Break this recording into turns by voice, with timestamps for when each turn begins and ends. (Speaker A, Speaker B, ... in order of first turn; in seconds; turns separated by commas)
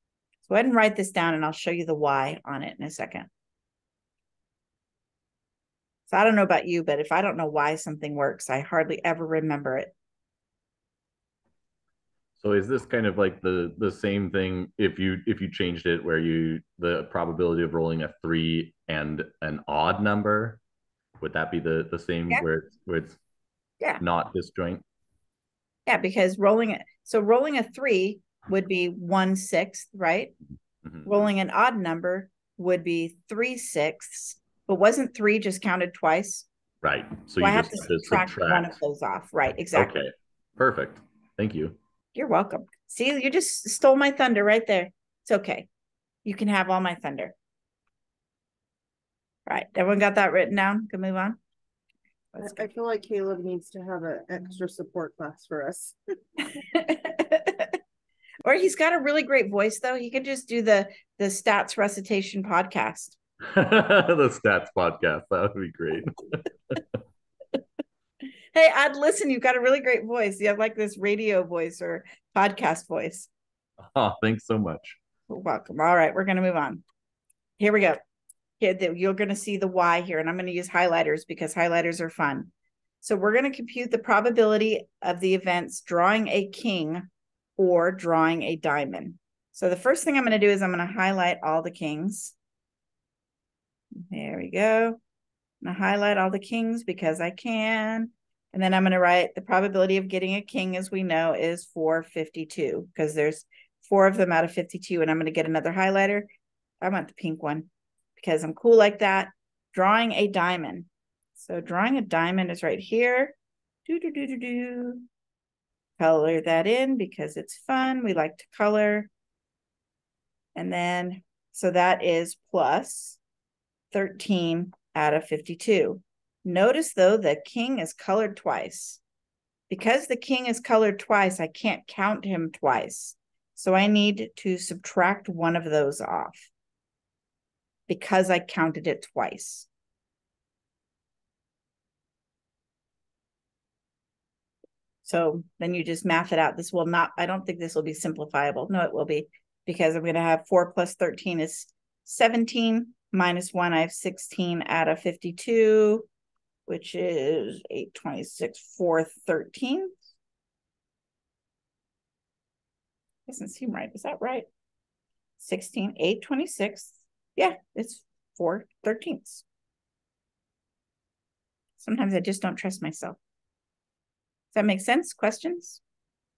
Speaker A: 0.5-3.3, Speaker A: 6.1-9.9, Speaker B: 12.4-20.6, Speaker B: 21.2-23.2, Speaker B: 24.0-24.8, Speaker A: 25.9-30.3, Speaker A: 31.1-36.5, Speaker B: 36.8-38.8, Speaker A: 37.4-39.9, Speaker B: 39.7-41.8, Speaker A: 42.1-45.7, Speaker A: 46.2-47.3, Speaker A: 49.5-51.4, Speaker A: 52.3-52.7, Speaker C: 52.4-56.0, Speaker A: 56.6-57.8, Speaker A: 58.4-63.2, Speaker B: 63.5-66.8, Speaker A: 68.5-73.3, Speaker B: 73.8-75.0, Speaker A: 75.3-76.8, Speaker A: 77.6-78.0, Speaker A: 78.6-82.5, Speaker A: 83.0-87.1, Speaker A: 87.6-92.3, Speaker A: 94.1-95.0, Speaker A: 95.6-106.3, Speaker A: 106.8-115.1, Speaker A: 116.0-119.1, Speaker A: 120.5-123.2, Speaker A: 123.9-129.0, Speaker A: 129.7-136.5, Speaker A: 137.9-139.7, Speaker A: 145.0-156.1, Speaker A: 156.7-159.9, Speaker A: 163.3-164.5, Speaker A: 165.4-169.4, Speaker A: 171.8-173.2, Speaker A: 174.5-175.8